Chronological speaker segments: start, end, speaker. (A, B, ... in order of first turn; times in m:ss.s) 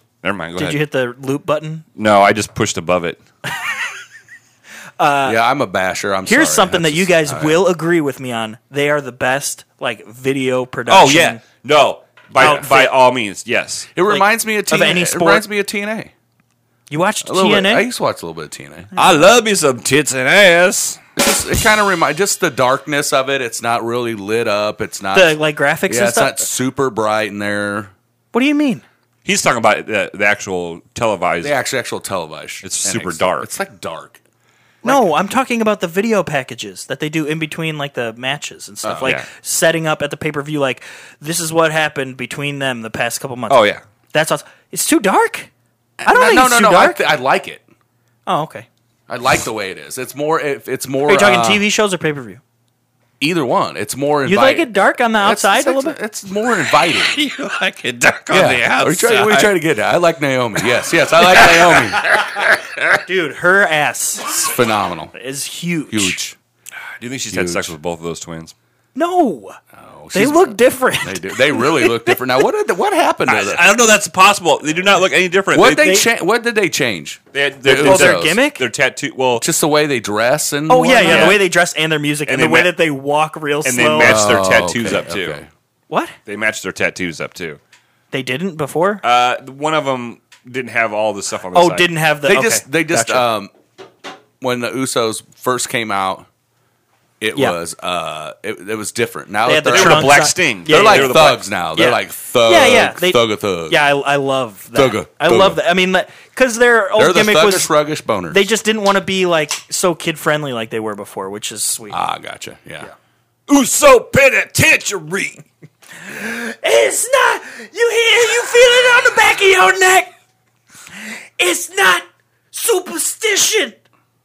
0:00.2-0:00.8 A
0:00.6-0:01.8 B
0:02.0-0:03.2 A
0:05.0-0:05.4 B
0:05.2-0:07.6 C
0:06.3-0:11.4 B
0:10.9-0:13.9 A
0:12.4-0:12.7 C
0:12.4-0:12.9 B
0:14.0-0:16.1 C
0:14.1-0:15.4 B
0:16.9-0:17.9 B
0:17.2-0:18.9 C
0:19.0-0:21.0 A
0:21.2-0:27.9 C
0:25.1-0:26.5 B
0:28.3-0:28.8 B
0:29.2-0:31.6 A
0:31.4-0:34.2 C
0:32.6-0:33.5 A
0:34.8-0:35.1 C
0:34.8-0:45.5 B
0:38.8-0:39.2 C
0:39.0-0:39.3 A
0:43.5-0:43.8 A
0:46.0-0:47.6 C
0:46.0-0:47.0 B
0:48.3-0:48.7 B
0:49.1-0:51.7 C
0:51.1-0:52.4 B
0:53.2-0:57.2 C
0:54.2-0:56.0 B
0:57.1-0:59.5 A
0:58.3-1:02.0 C
1:01.2-1:03.0 A
1:03.1-1:04.3 B
1:04.2-1:05.1 C
1:05.2-1:06.2 B
1:05.9-1:06.4 C
1:07.0-1:08.5 A
1:07.3-1:07.7 C
1:09.0-1:09.6 B
1:09.7-1:13.7 C
1:10.1-1:12.3 B
1:13.3-1:16.0 A
1:15.5-1:18.4 C
1:15.8-1:16.0 B
1:17.3-1:19.4 A
1:17.8-1:18.6 B
1:19.4-1:21.4 C
1:20.7-1:24.4 B
1:21.0-1:21.4 A
1:22.3-1:22.7 A
1:23.6-1:25.4 A
1:24.0-1:25.5 C
1:25.9-1:26.2 B
1:26.3-1:27.6 A
1:28.1-1:29.0 B
1:29.0-1:31.9 A
1:31.5-1:33.2 B
1:32.2-1:33.5 C
1:34.4-1:36.3 C
1:37.2-1:43.8 C
1:39.4-1:47.7 B
1:39.7-1:41.5 A
1:44.7-1:45.6 C
1:47.0-1:48.5 C
1:48.3-1:52.0 B
1:51.9-1:52.9 C
1:53.5-1:55.4 A
1:56.0-2:00.1 B
2:01.0-2:03.8 B